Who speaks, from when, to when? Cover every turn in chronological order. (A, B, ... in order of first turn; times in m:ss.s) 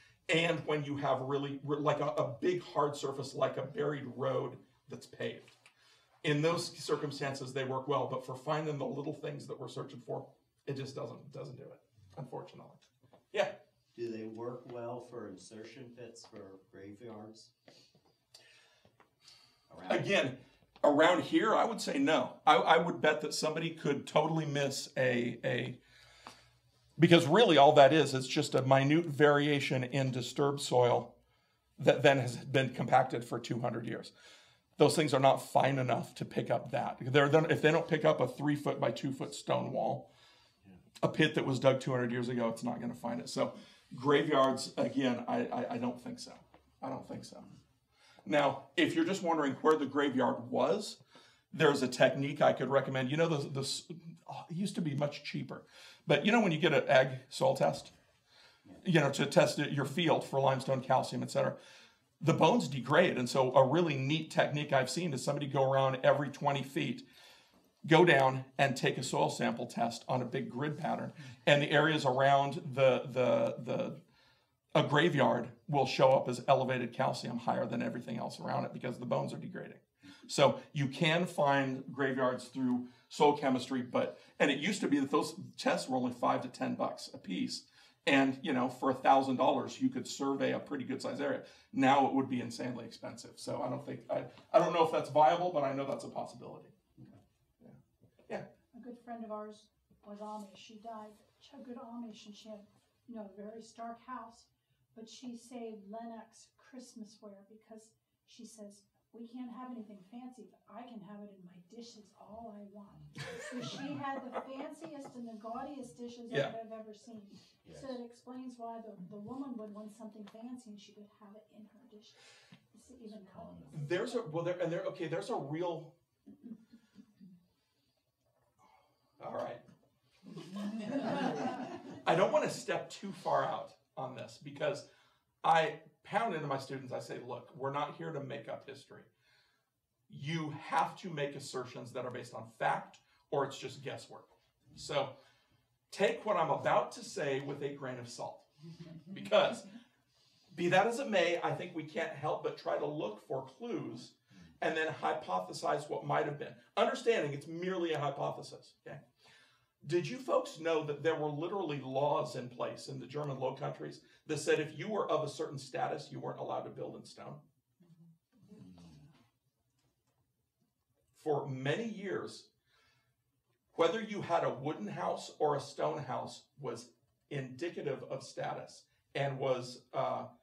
0:00.3-0:05.5 A
0:06.2-0:13.6 A
0:14.0-0:17.5 B
0:19.7-0:20.1 B
0:19.9-0:25.8 A
0:27.0-0:31.1 A
0:31.8-0:34.1 A
0:34.8-0:40.1 A
0:41.0-0:47.5 A
0:48.2-0:51.0 A
0:51.5-0:57.9 A
0:58.8-1:01.6 A
1:02.2-1:07.0 A
1:07.8-1:14.0 A
1:14.7-1:36.7 A
1:38.7-2:02.2 C
1:56.3-1:56.5 A
1:57.6-1:58.0 B
2:02.7-2:04.2 C
2:03.4-2:03.7 B
2:03.7-2:05.9 A
2:09.2-2:09.6 A
2:12.0-2:14.9 A
2:15.4-2:19.1 A
2:20.1-2:25.1 A
2:25.9-2:28.4 A
2:29.1-2:29.6 A
2:30.5-2:39.0 A
2:39.8-2:47.4 A
2:51.1-2:52.5 A
2:53.7-3:00.3 A